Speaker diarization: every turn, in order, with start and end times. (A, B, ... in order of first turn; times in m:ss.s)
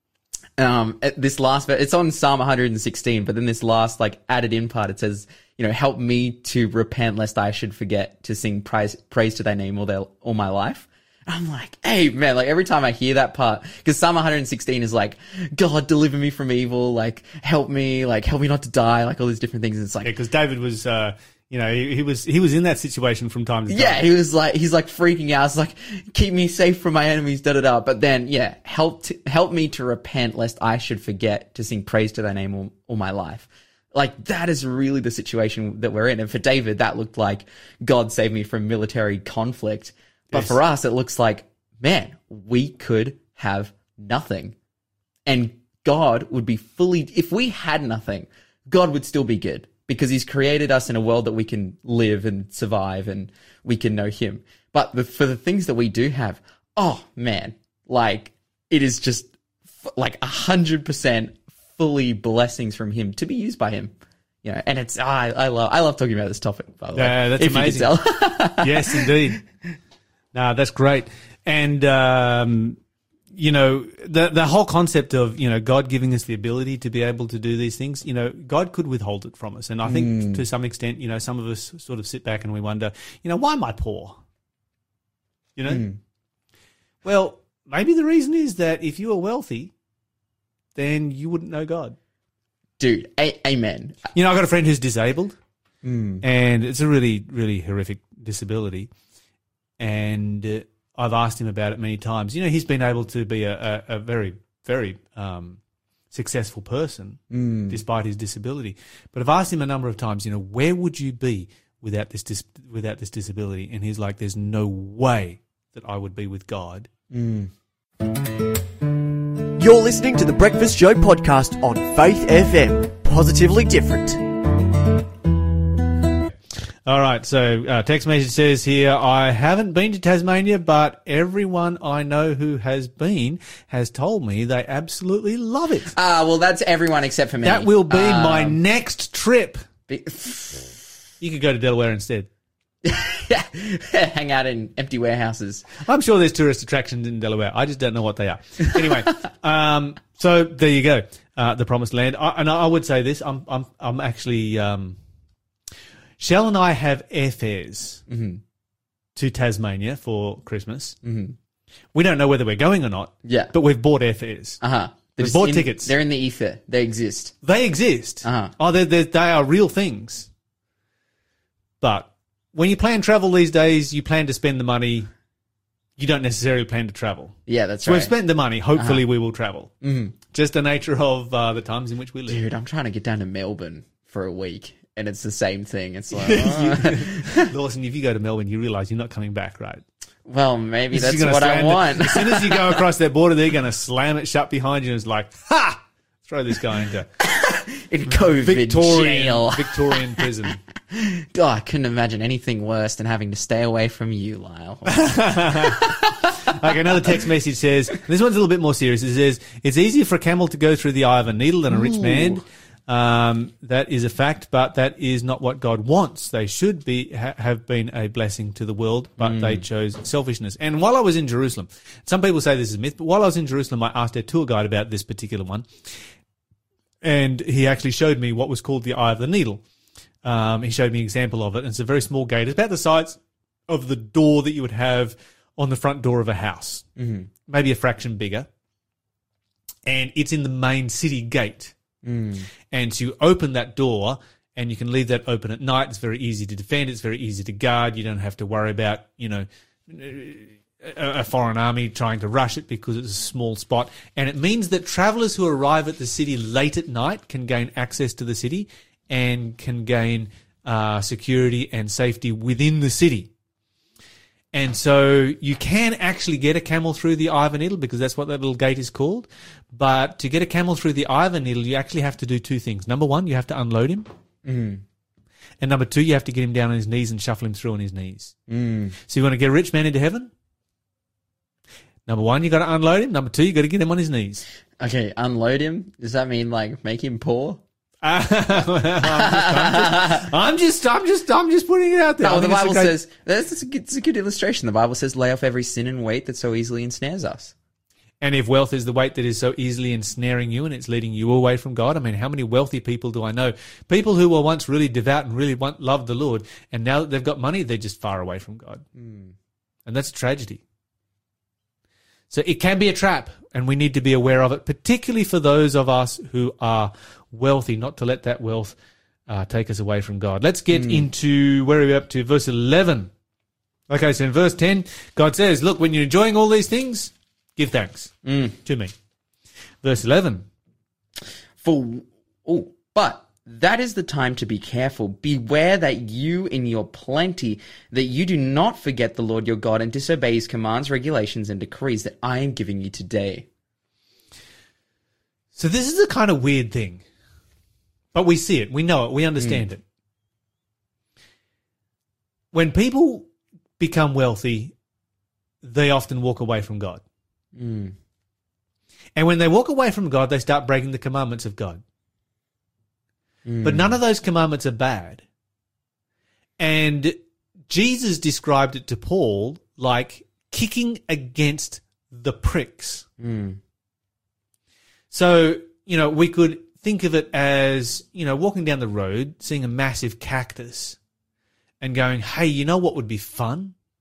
0:00.6-0:20.1 A
0:20.0-0:24.0 B
0:23.7-0:44.6 A
0:40.3-0:40.6 B
0:45.3-0:59.3 A
0:59.8-1:03.9 A
1:04.4-1:09.1 A
1:06.9-1:08.0 B
1:08.5-1:09.4 B
1:10.3-1:12.8 B
1:13.3-1:24.2 B
1:19.8-1:20.4 A
1:25.6-1:25.9 B
1:25.7-1:26.0 A
1:27.0-1:29.7 B
1:30.8-1:32.0 B
1:32.8-1:34.0 A
1:34.1-1:35.4 B
1:35.8-1:36.2 A
1:36.2-1:38.9 B
1:39.8-1:45.6 B
1:46.1-1:56.9 B
1:47.3-1:47.8 A
1:57.1-1:57.5 A
1:59.6-2:04.2 C
2:06.9-2:15.9 B
2:15.9-2:18.6 A
2:17.4-2:19.6 B
2:19.9-2:20.8 A
2:21.2-2:22.3 B
2:22.8-2:25.6 A
2:25.8-2:35.0 B
2:36.2-2:38.0 B
2:38.1-2:38.4 A
2:39.2-2:41.0 B
2:41.0-2:41.4 A
2:41.9-2:44.6 B
2:43.2-2:43.5 A
2:44.6-2:47.4 A
2:45.1-2:45.9 B
2:47.4-2:50.3 B
2:48.2-2:48.5 A
2:51.8-2:55.1 B
2:56.0-2:59.7 B
2:57.5-2:58.1 A
2:58.8-2:59.0 A
2:59.8-3:00.1 A
3:00.3-3:02.4 B
3:02.3-3:07.5 A
3:06.1-3:09.8 B
3:10.3-3:12.8 A
3:10.9-3:17.1 B
3:17.2-3:20.3 A
3:18.2-3:20.6 B
3:20.9-3:26.6 A
3:24.9-3:45.6 B
3:31.7-3:32.4 A
3:39.2-3:39.6 A
3:47.0-3:49.6 B
3:50.2-3:56.9 B
3:57.0-3:57.3 A
3:57.5-3:58.5 B
3:59.9-4:01.7 B
4:02.0-4:02.5 A
4:02.7-4:23.3 B
4:24.5-4:34.1 B
4:34.4-4:34.8 A
4:35.6-4:38.3 B
4:38.5-4:39.0 A
4:39.1-4:40.3 B
4:42.1-4:44.4 B
4:44.8-4:47.6 A
4:48.0-4:52.9 B
4:49.0-4:50.3 A
4:52.2-4:57.5 A
4:58.2-5:08.8 B
5:09.0-5:09.3 A
5:09.9-5:10.6 B
5:12.3-5:18.8 B
5:19.3-5:23.1 B
5:20.7-5:21.0 A
5:23.9-5:28.9 B
5:28.2-5:28.6 A
5:29.8-5:30.4 B
5:31.6-5:43.4 A
5:45.5-5:47.0 B
5:48.1-5:49.8 B
5:49.4-5:49.6 A
5:52.5-5:53.3 B
5:53.8-5:54.7 B
5:55.6-5:57.0 B
5:57.6-5:57.9 A
5:59.2-6:01.8 B
6:03.4-6:03.9 A
6:03.6-6:05.2 B
6:06.6-6:07.2 B
6:07.7-6:13.1 B
6:13.2-6:13.6 A
6:15.1-6:21.0 B
6:21.8-6:23.7 B